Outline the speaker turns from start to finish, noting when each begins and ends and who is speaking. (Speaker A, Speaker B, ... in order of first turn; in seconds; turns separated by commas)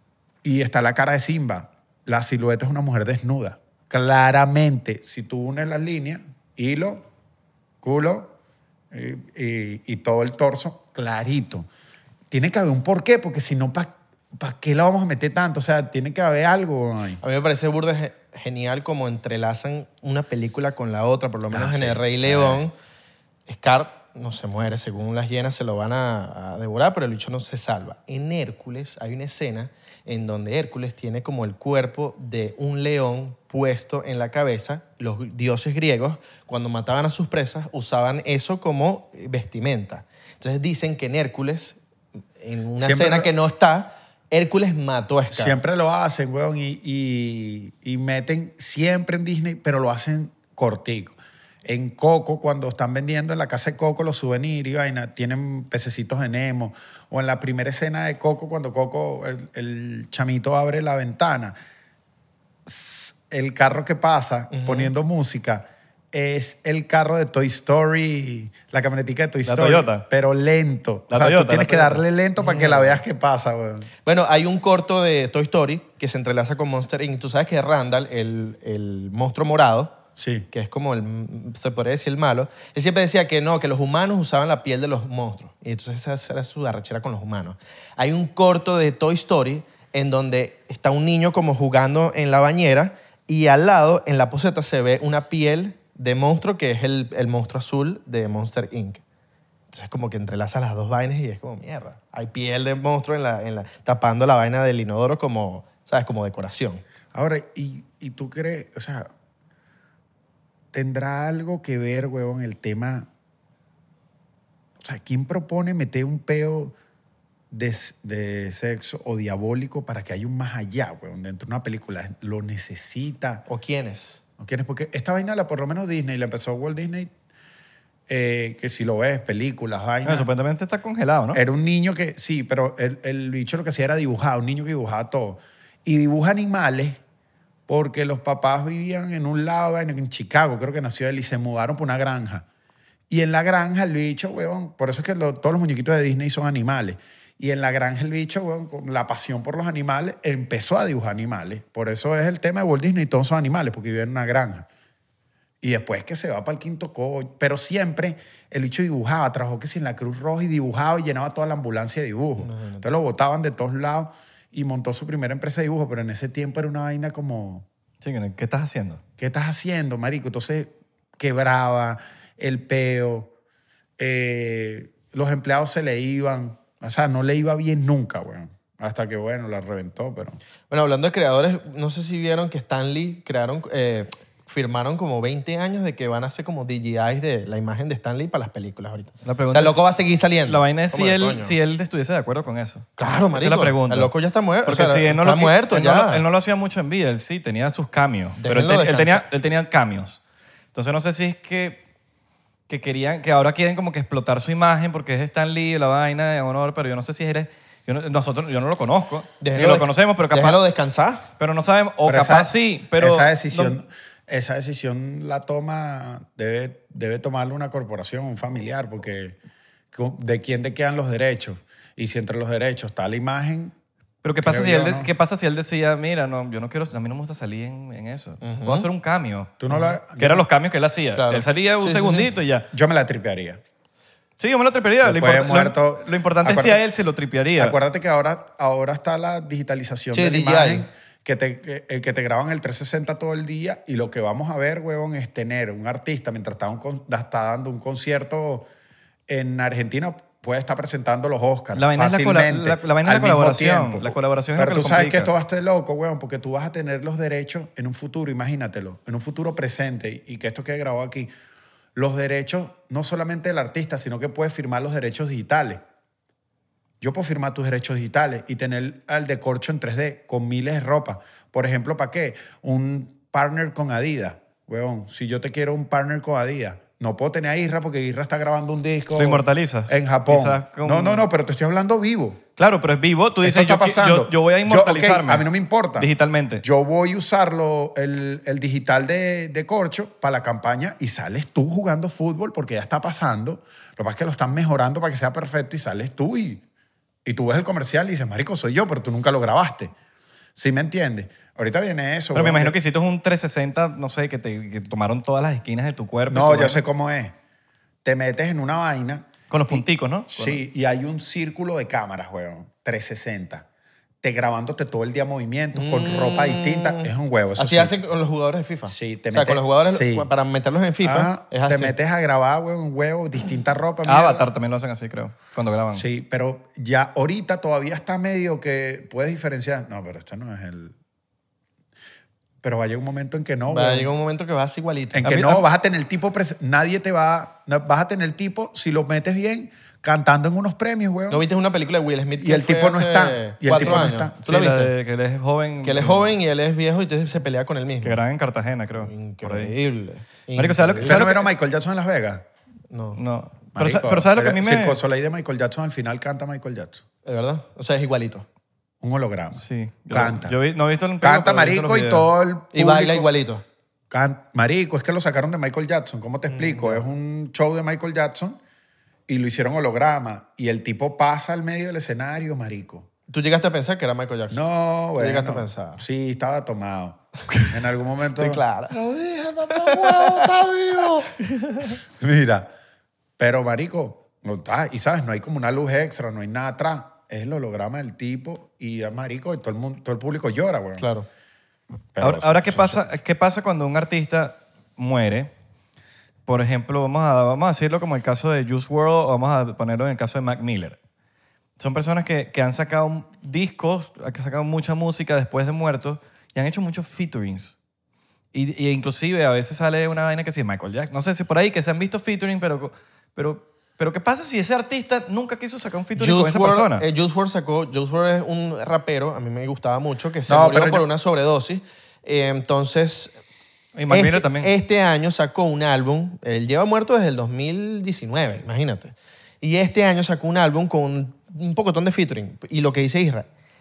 Speaker A: 0.4-7.1, Speaker A: 7.8-8.3, Speaker A: 8.9-11.7, Speaker A: 12.3-17.2, Speaker B: 17.2-22.7, Speaker C: 21.6-21.9, Speaker A: 21.6-22.6, Speaker B: 23.5-41.8, Speaker B: 42.4-45.6, Speaker A: 42.8-43.3, Speaker A: 45.3-61.5, Speaker A: 62.7-73.9, Speaker B: 64.5-64.9, Speaker C: 69.5-70.0, Speaker C: 71.1-72.0, Speaker B: 72.4-73.0, Speaker B: 74.0-80.0, Speaker A: 80.2-80.5, Speaker B: 80.5-99.0, Speaker B: 99.7-106.8, Speaker A: 107.1-109.1, Speaker A: 110.7-113.1, Speaker A: 114.8-116.7, Speaker A: 117.5-123.4, Speaker B: 123.5-124.2, Speaker A: 124.4-127.1, Speaker A: 128.1-130.3, Speaker C: 130.1-131.4, Speaker A: 131.3-137.0, Speaker A: 137.7-142.5, Speaker A: 143.1-154.7, Speaker A: 155.6-167.7, Speaker B: 162.4-162.8, Speaker C: 168.0-169.0, Speaker A: 169.2-173.3, Speaker A: 174.0-180.4, Speaker B: 180.7-191.6, Speaker C: 189.2-189.8, Speaker C: 190.4-194.1, Speaker B: 193.0-196.2, Speaker C: 194.7-200.2, Speaker B: 198.4-199.2, Speaker C: 200.7-201.8, Speaker C: 202.7-210.6, Speaker B: 209.4-211.3, Speaker C: 211.4-213.8, Speaker A: 212.1-219.4, Speaker A: 219.9-223.7, Speaker C: 224.2-229.6, Speaker A: 224.4-225.1, Speaker B: 228.4-228.9, Speaker A: 229.6-230.5, Speaker C: 230.2-232.7, Speaker B: 231.2-232.3, Speaker A: 232.7-233.6, Speaker C: 234.4-237.8, Speaker A: 235.0-236.8, Speaker A: 237.6-248.7, Speaker B: 240.1-240.9, Speaker A: 249.3-261.3, Speaker C: 251.8-255.3, Speaker A: 261.9-265.8, Speaker A: 267.0-282.4, Speaker C: 279.1-281.3, Speaker C: 282.6-286.6, Speaker A: 283.4-286.1, Speaker A: 286.6-296.6, Speaker A: 297.2-299.9, Speaker A: 300.6-302.8, Speaker C: 302.3-306.8, Speaker A: 306.3-307.4, Speaker A: 308.0-313.6, Speaker C: 309.5-310.6, Speaker A: 314.2-317.9, Speaker B: 315.8-321.9, Speaker A: 318.9-320.3, Speaker A: 321.0-324.5, Speaker C: 324.1-326.1, Speaker A: 325.9-330.9, Speaker A: 332.6-334.1, Speaker B: 333.7-335.3, Speaker A: 335.1-341.4, Speaker C: 335.2-335.6, Speaker B: 341.3-344.9, Speaker A: 342.4-344.4, Speaker C: 343.7-346.4, Speaker B: 345.8-348.2, Speaker C: 348.0-349.8, Speaker B: 349.0-351.3, Speaker C: 350.6-351.5, Speaker A: 351.0-352.4, Speaker B: 352.9-353.2, Speaker C: 353.1-355.0, Speaker A: 353.7-357.0, Speaker B: 357.2-358.5, Speaker A: 359.0-360.6, Speaker C: 359.6-362.3, Speaker A: 361.2-363.3, Speaker B: 362.7-363.6, Speaker A: 364.1-368.6, Speaker B: 366.5-367.0, Speaker A: 369.3-373.1, Speaker B: 373.3-374.6, Speaker A: 374.5-381.3, Speaker B: 375.2-376.0, Speaker B: 378.4-379.0, Speaker B: 379.7-380.5, Speaker A: 382.1-382.7, Speaker A: 383.4-391.1, Speaker B: 391.0-391.3, Speaker A: 392.1-393.1, Speaker C: 392.2-395.5, Speaker C: 396.5-401.0, Speaker C: 401.8-407.8, Speaker C: 408.5-417.1, Speaker B: 416.2-423.3, Speaker A: 420.5-421.1, Speaker C: 423.9-424.7, Speaker B: 424.1-433.5